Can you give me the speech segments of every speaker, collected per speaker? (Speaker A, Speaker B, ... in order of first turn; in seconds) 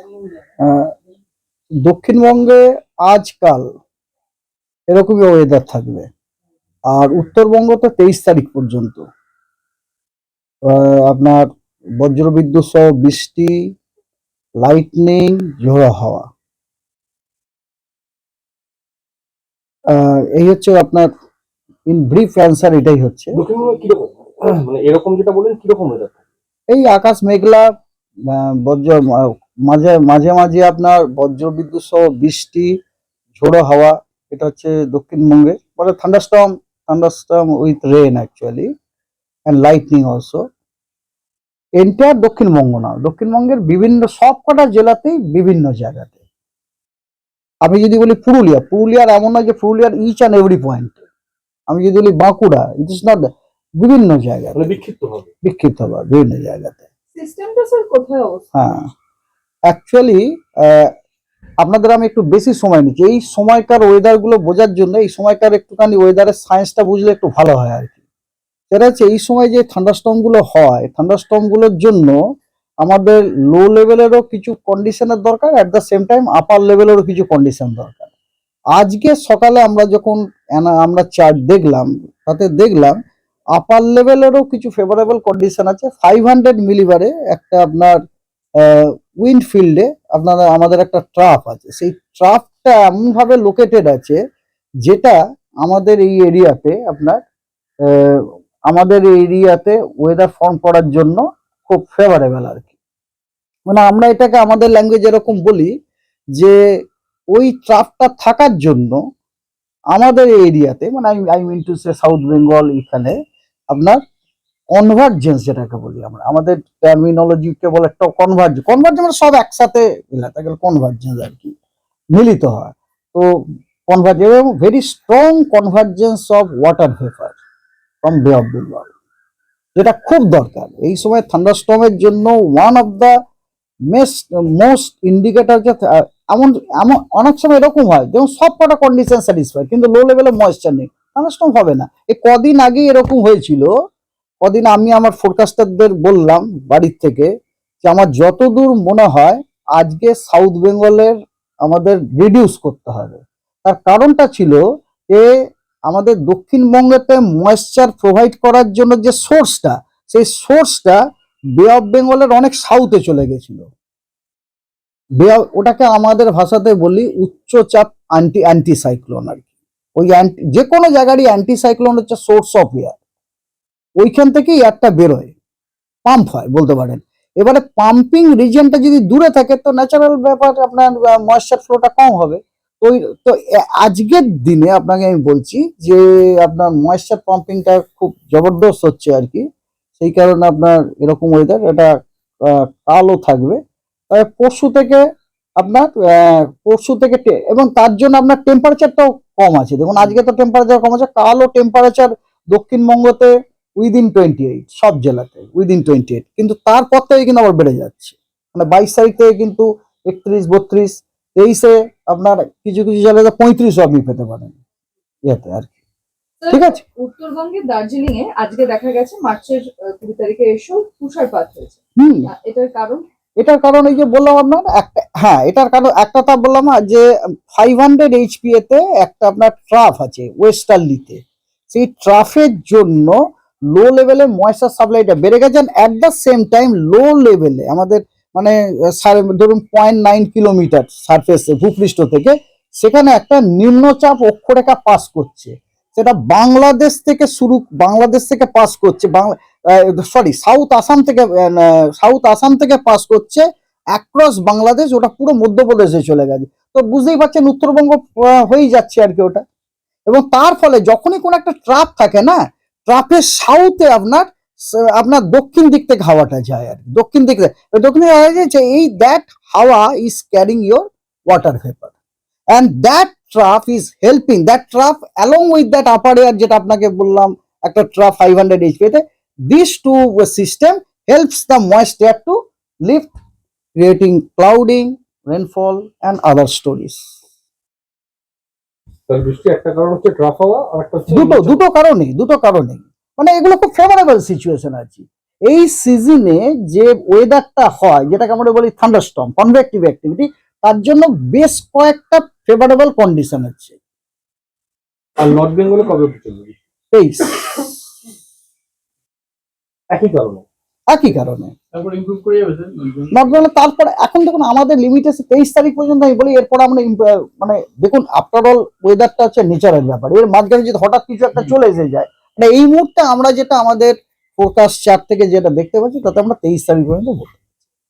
Speaker A: 1.9-3.7, 4.9-6.1, 6.9-9.1, 10.7-11.5, 12.0-13.7, 14.6-16.3, 19.9-21.1, 21.9-23.4, 26.7-27.7, 28.3-32.7, 33.4-38.7, 39.5-40.4, 41.8-46.1, 47.6-51.0, 51.7-53.3, 53.8-54.8, 55.4-56.8, 58.5-58.9, 59.7-60.9, 61.6-68.0, 68.7-72.2, 72.8-78.1, 78.8-83.0, 83.6-88.0, 88.6-94.2, 94.8-97.2, 97.9-102.7, 103.7-105.7, 107.3-109.0, 110.0-113.2, 113.7-114.0, 114.7-121.5, 122.2-123.3, 123.9-127.4, 128.0-128.9, 129.8-133.1, 133.9-143.7, 144.4-147.3, 147.8-154.6, 155.9-161.0, 161.6-163.7, 165.2-169.5, 170.0-173.0, 174.0-175.3, 176.1-189.4, 190.0-191.9, 192.5-193.6, 194.1-195.0, 195.6-214.6, 215.3-215.7, 216.5-216.8, 222.0-222.3, 223.4-233.2, 233.7-253.4, 253.9-259.4, 260.1-264.3, 264.9-271.9, 272.5-283.1, 283.8-287.1, 291.1-303.8, 306.9-307.7, 310.9-311.5, 313.1-327.4
Speaker B: 23.3-26.2, 54.5-55.3, 289.1-291.6, 305.2-306.6, 309.9-310.5, 311.8-313.3
Speaker C: 57.1-58.5, 216.4-223.0